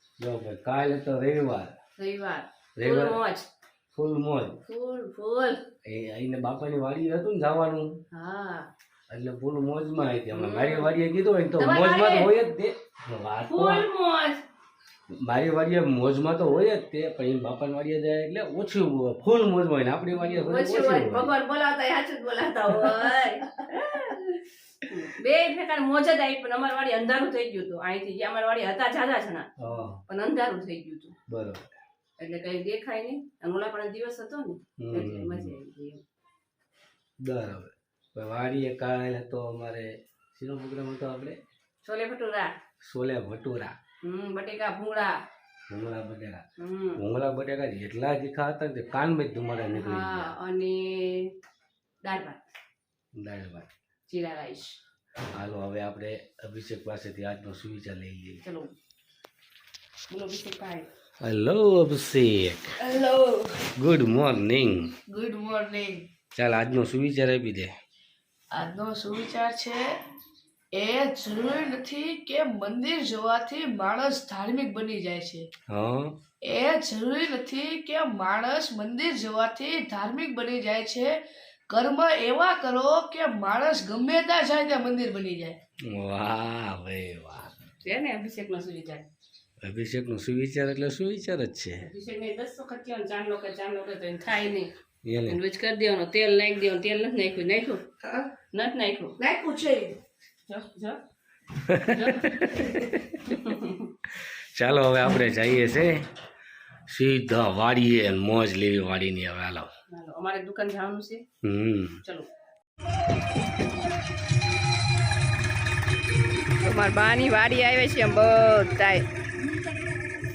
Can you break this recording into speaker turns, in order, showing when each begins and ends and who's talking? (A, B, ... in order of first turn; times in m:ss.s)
0:00.2-0:01.7 A
0:02.0-0:03.5 B
0:02.8-0:03.2 A
0:03.9-0:04.6 A
0:04.7-0:05.6 B
0:05.8-0:08.0 A
0:08.1-0:08.7 B
0:09.1-0:13.9 A
0:10.3-0:10.9 B
0:11.6-0:12.3 B
0:13.5-0:14.4 B
0:15.1-0:21.3 A
0:20.2-0:24.4 B
0:24.9-0:29.5 B
0:29.6-0:30.0 A
0:30.1-0:31.1 B
0:31.3-0:31.7 A
0:32.2-0:36.0 B
0:34.8-0:35.5 A
0:37.2-0:41.4 A
0:41.8-0:42.5 B
0:42.8-0:43.8 A
0:44.0-0:45.2 B
0:45.7-0:46.4 A
0:46.6-0:47.0 B
0:47.0-0:50.3 A
0:49.7-0:51.3 B
0:52.0-0:52.4 B
0:53.1-0:53.7 A
0:54.1-0:54.8 B
0:55.3-0:58.4 A
0:58.4-0:58.7 B
1:00.1-1:00.9 B
1:01.2-1:02.7 A
1:02.8-1:03.5 B
1:03.8-1:04.9 A
1:05.1-1:06.0 C
1:06.3-1:07.7 A
1:08.5-1:09.8 C
1:10.8-1:15.4 C
1:15.7-1:16.2 A
1:16.4-1:21.2 C
1:21.7-1:25.5 C
1:25.9-1:27.5 A
1:27.8-1:29.0 B
1:29.6-1:31.8 A
1:31.8-1:34.7 B
1:35.0-1:35.4 A
1:35.3-1:37.9 B
1:38.5-1:39.2 B
1:40.5-1:41.0 B
1:41.6-1:43.2 A
1:41.9-1:42.7 B
1:43.3-1:43.9 B
1:44.6-1:46.0 A
1:46.9-1:49.7 A
1:49.9-1:51.2 B
1:51.4-1:52.0 A
1:56.6-1:59.0 B